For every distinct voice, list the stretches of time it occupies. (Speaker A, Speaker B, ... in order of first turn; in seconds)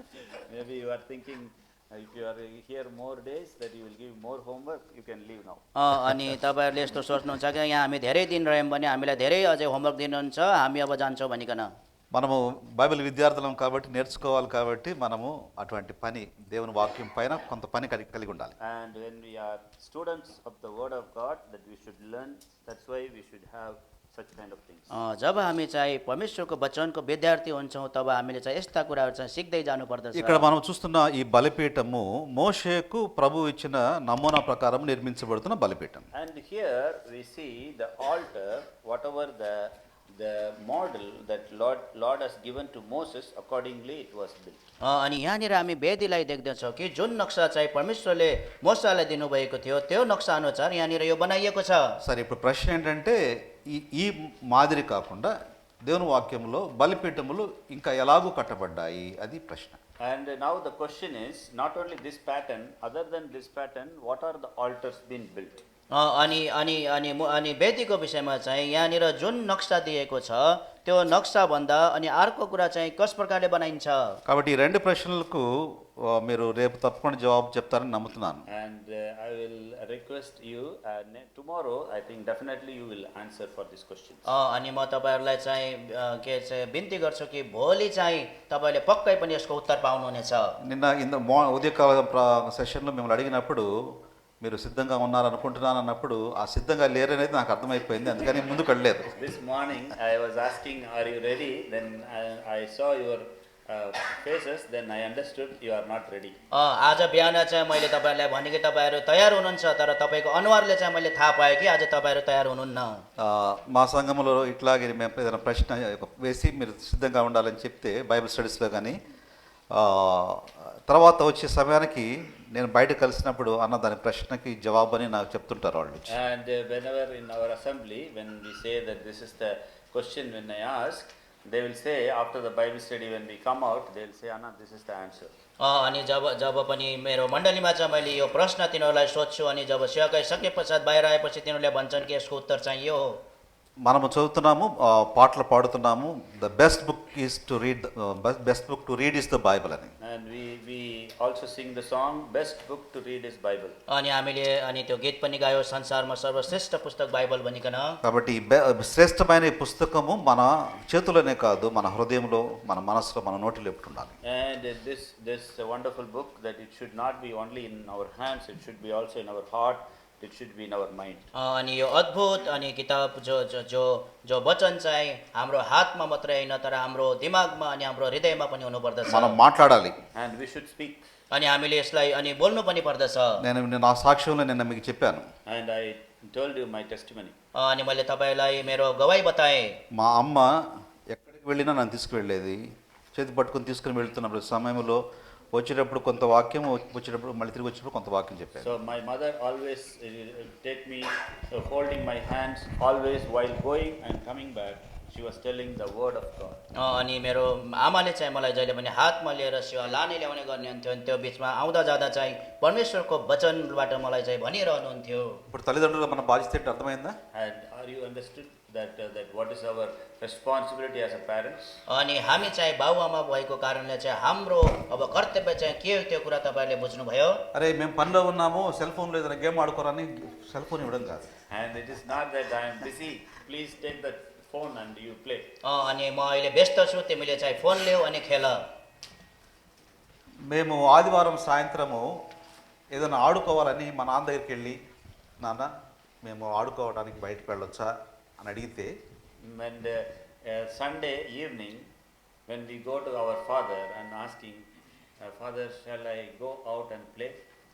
Speaker A: 0.1-5.6, 18.6-24.9, 36.1-44.7, 60.0-65.6, 78.5-84.3, 99.2-106.4, 126.1-135.3, 150.0-153.8, 164.2-171.3, 180.1-181.0, 185.5-187.3, 198.6-206.6, 217.3-221.8, 231.5-235.5, 249.4-251.9, 252.5-254.7, 255.2-257.4
Speaker B: 5.8-11.7, 24.9-30.5, 44.8-51.9, 65.9-74.2, 84.3-90.6, 106.5-113.0, 135.6-143.1, 153.9-157.9, 171.3-179.4, 181.3-183.4, 187.6-189.8, 206.8-215.4, 221.9-227.4, 235.6-238.6
Speaker C: 12.1-18.5, 30.1-36.0, 52.0-53.2, 53.7-55.3, 55.8-59.8, 74.2-78.4, 90.6-93.7, 94.4-99.1, 113.2-119.0, 119.7-126.1, 143.8-149.9, 158.0-164.1, 179.1-180.0, 183.4-185.2, 189.9-190.5, 191.1-192.6, 193.1-195.0, 195.5-198.7, 215.5-217.2, 227.5-231.3, 240.5-242.1, 242.9-244.8, 245.4-245.7, 246.2-248.9